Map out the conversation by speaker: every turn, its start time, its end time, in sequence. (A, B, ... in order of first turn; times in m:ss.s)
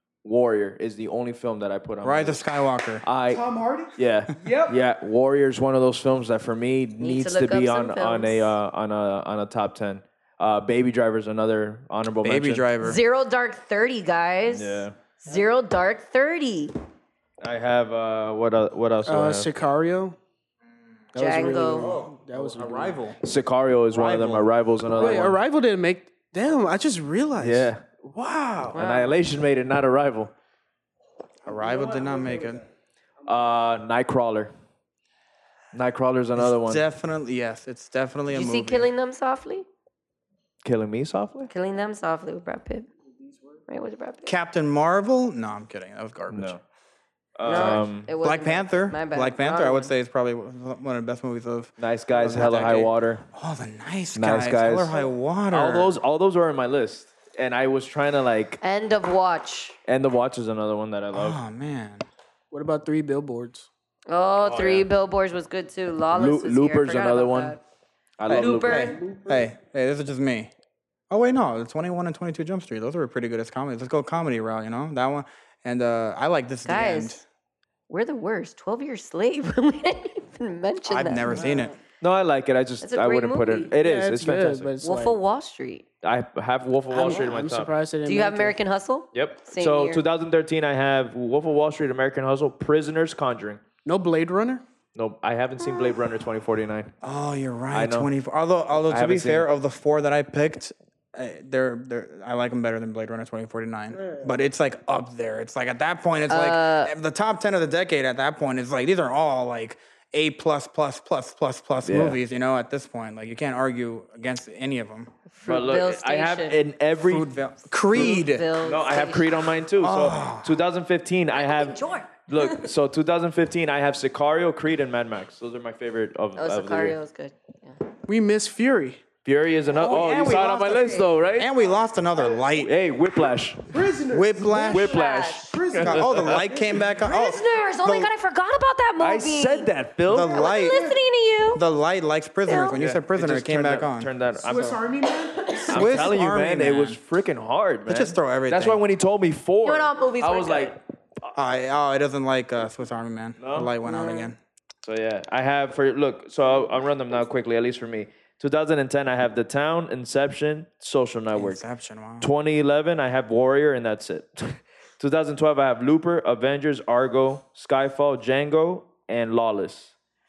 0:00.2-0:02.4 A
0:02.0-0:03.0 B
0:03.0-0:12.6 A
0:03.3-0:04.8 C
0:07.0-0:08.6 D
0:12.2-0:13.0 B
0:12.8-0:16.7 D
0:14.5-0:15.0 A
0:17.4-0:19.5 A
0:19.1-0:20.2 C
0:21.1-0:23.0 C
0:21.2-0:22.0 D
0:21.7-0:23.2 B
0:23.2-0:25.4 A
0:23.9-0:24.5 B
0:24.9-0:28.8 C
0:27.4-0:27.8 A
0:28.7-0:30.3 A
0:28.7-0:29.2 D
0:31.4-0:32.6 B
0:31.4-0:32.7 C
0:33.2-0:33.5 C
0:33.3-0:34.5 A
0:35.7-0:36.8 A
0:36.4-0:38.9 B
0:38.3-0:39.7 D
0:40.6-0:41.5 A
0:41.5-0:42.9 D
0:43.1-0:43.6 C
0:43.7-0:44.3 D
0:44.3-0:46.6 B
0:46.3-0:46.6 A
0:47.4-0:48.1 A
0:47.4-0:49.9 D
0:47.5-0:56.0 B
0:51.8-0:53.2 A
0:54.1-0:58.6 A
0:58.6-0:59.8 D
0:59.9-1:01.4 A
1:01.1-1:02.1 B
1:02.5-1:03.7 C
1:04.1-1:07.6 D
1:04.4-1:04.9 A
1:06.1-1:07.6 A
1:08.2-1:08.9 A
1:08.3-1:09.5 C
1:08.3-1:09.0 D
1:08.6-1:10.5 B
1:11.1-1:17.2 B
1:16.6-1:17.2 D
1:17.9-1:21.5 D
1:20.9-1:21.7 B
1:21.2-1:21.8 C
1:22.0-1:24.7 A
1:22.8-1:23.7 D
1:23.8-1:25.2 C
1:24.8-1:25.8 D
1:26.0-1:27.7 A
1:26.9-1:28.6 C
1:28.0-1:30.0 D
1:29.1-1:33.6 A
1:33.8-1:34.6 C
1:35.0-1:36.9 A
1:37.0-1:55.1 B
1:37.7-1:38.1 A
1:38.9-1:39.5 A
1:44.0-1:44.3 C
1:46.3-1:46.9 D
1:51.8-1:52.2 A
1:55.4-1:56.6 D
1:55.4-1:57.3 A
1:57.0-1:58.5 B
1:57.9-1:59.3 D
1:58.0-2:07.0 A
1:59.8-2:00.6 B
2:01.4-2:02.7 D
2:06.4-2:07.8 D
2:08.1-2:09.0 C
2:09.2-2:11.5 A
2:09.7-2:11.1 C
2:11.4-2:12.7 B
2:12.6-2:13.7 A
2:13.7-2:16.9 C
2:14.1-2:14.9 B
2:14.6-2:16.5 A
2:14.8-2:15.6 D
2:15.8-2:18.1 B
2:17.0-2:21.6 D
2:19.0-2:20.4 A
2:20.0-2:21.0 B
2:21.5-2:24.8 B
2:22.5-2:22.8 D
2:22.7-2:24.8 A
2:24.4-2:26.1 C
2:25.7-2:30.8 A
2:25.7-2:27.0 B
2:27.9-2:28.8 B
2:29.6-2:30.7 D
2:31.3-2:34.4 B
2:33.4-2:33.7 A
2:34.8-2:41.6 A
2:41.3-2:42.3 B
2:42.2-2:49.9 A